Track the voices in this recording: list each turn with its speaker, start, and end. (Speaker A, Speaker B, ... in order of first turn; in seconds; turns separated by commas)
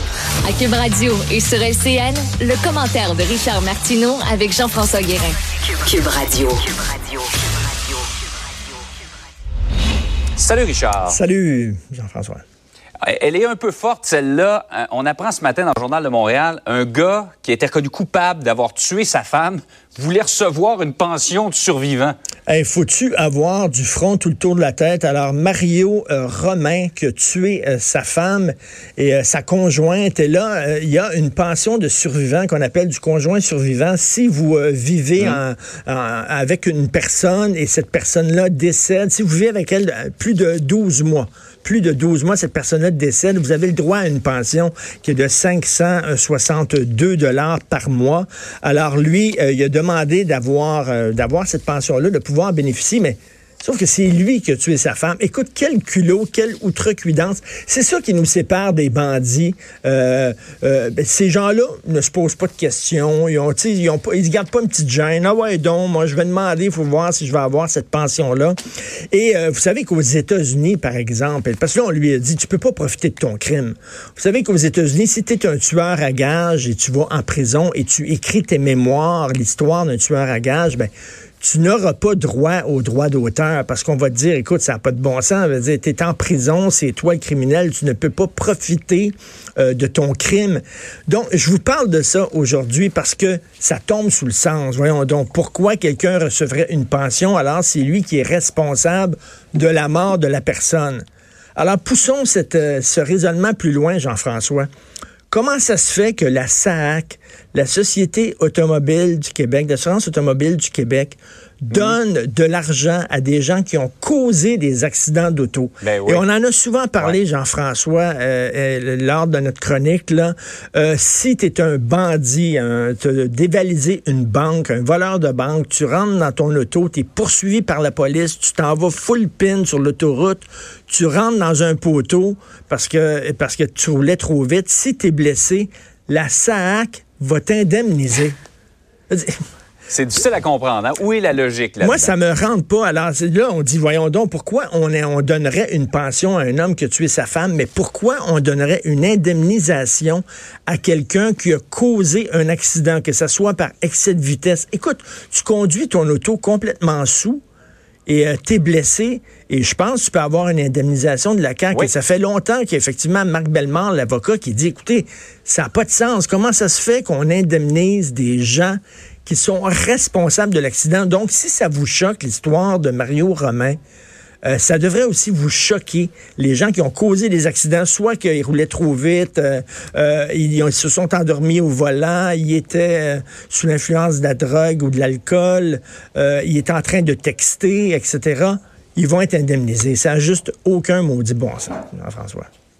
Speaker A: 0.4-7.3, Speaker B: 10.3-11.2, Speaker C: 11.1-12.4, Speaker B: 13.0-22.1, Speaker C: 22.5-68.5, Speaker C: 69.1-101.0, Speaker C: 101.5-104.7, Speaker C: 105.3-138.3, Speaker B: 111.7-112.0, Speaker B: 115.8-116.2, Speaker C: 139.1-139.4, Speaker B: 139.9-142.1, Speaker C: 141.8-157.4, Speaker C: 158.1-173.8, Speaker C: 174.4-192.5